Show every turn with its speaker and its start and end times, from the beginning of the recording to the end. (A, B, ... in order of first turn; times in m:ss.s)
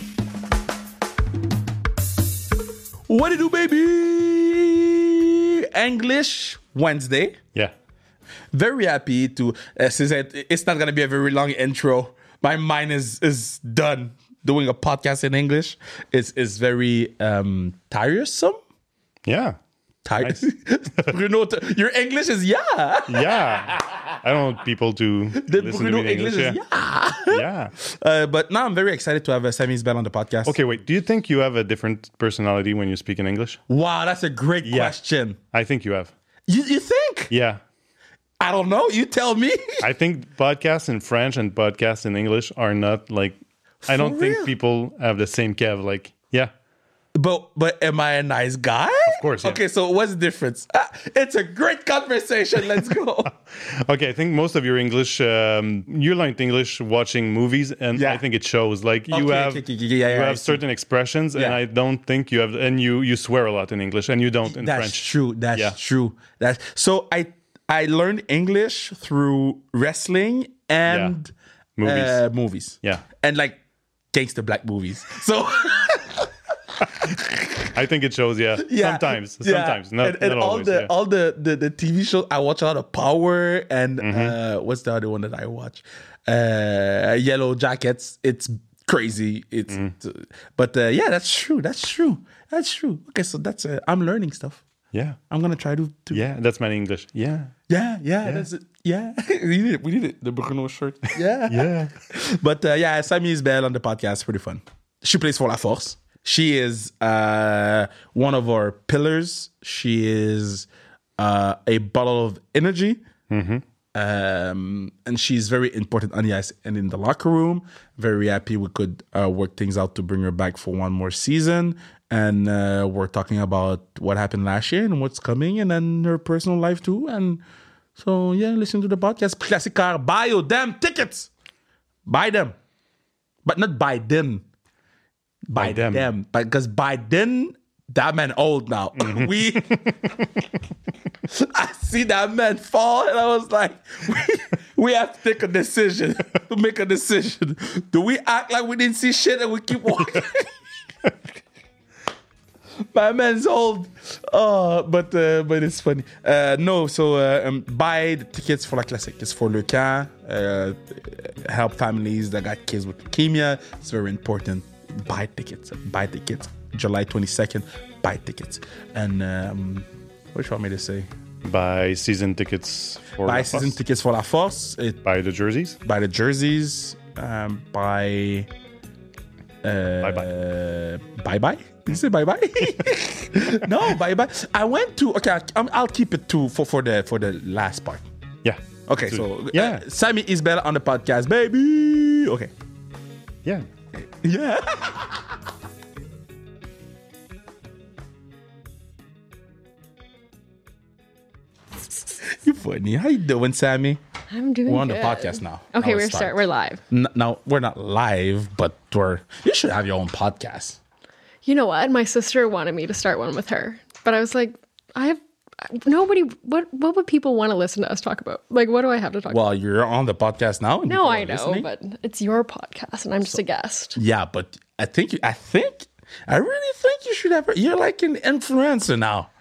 0:03.1-0:07.4 A
0:08.5-0:18.6 A
0:19.3-0:19.6 B
0:20.0-0:24.0 A
0:23.1-0:26.6 B
0:25.4-0:30.6 A
0:27.3-0:27.7 B
0:30.5-0:33.6 B
0:33.7-0:35.4 A
0:34.6-0:35.0 B
0:35.5-0:36.1 B
0:36.5-0:37.3 A
0:37.3-0:37.6 B
0:38.4-0:39.8 A
0:39.8-0:46.5 B
0:43.9-0:44.5 A
0:47.2-0:53.3 A
0:49.1-0:49.6 B
0:53.5-1:05.8 B
0:58.0-0:58.2 A
0:59.1-1:00.6 A
1:01.4-1:01.6 A
1:04.4-1:13.6 A
1:10.9-1:11.1 B
1:11.8-1:12.2 B
1:14.1-1:17.7 A
1:17.7-1:20.9 B
1:18.6-1:34.6 A
1:24.0-1:24.4 B
1:35.3-1:36.2 A
1:36.1-1:37.5 B
1:37.7-1:53.0 A
1:41.5-1:41.9 B
1:53.3-1:53.6 B
1:54.0-2:07.4 A
2:08.0-2:11.3 A
2:12.1-2:12.6 A
2:13.4-2:14.4 A
2:15.5-2:19.8 A
2:15.6-2:16.1 B
2:19.0-2:20.4 B
2:21.3-2:30.6 A
2:32.9-2:51.1 A
2:51.4-2:53.8 B
2:53.2-2:55.0 A
2:55.0-2:55.8 B
2:55.8-2:58.5 A
2:59.6-3:08.0 A
3:00.0-3:00.3 B
3:08.4-3:09.8 B
3:08.9-3:12.5 A
3:14.0-3:15.4 A
3:22.3-3:24.0 A
3:24.3-3:26.8 C
3:24.7-3:30.8 A
3:31.4-3:39.4 C
3:39.3-3:41.7 A
3:40.9-3:44.0 C
3:44.0-3:49.3 A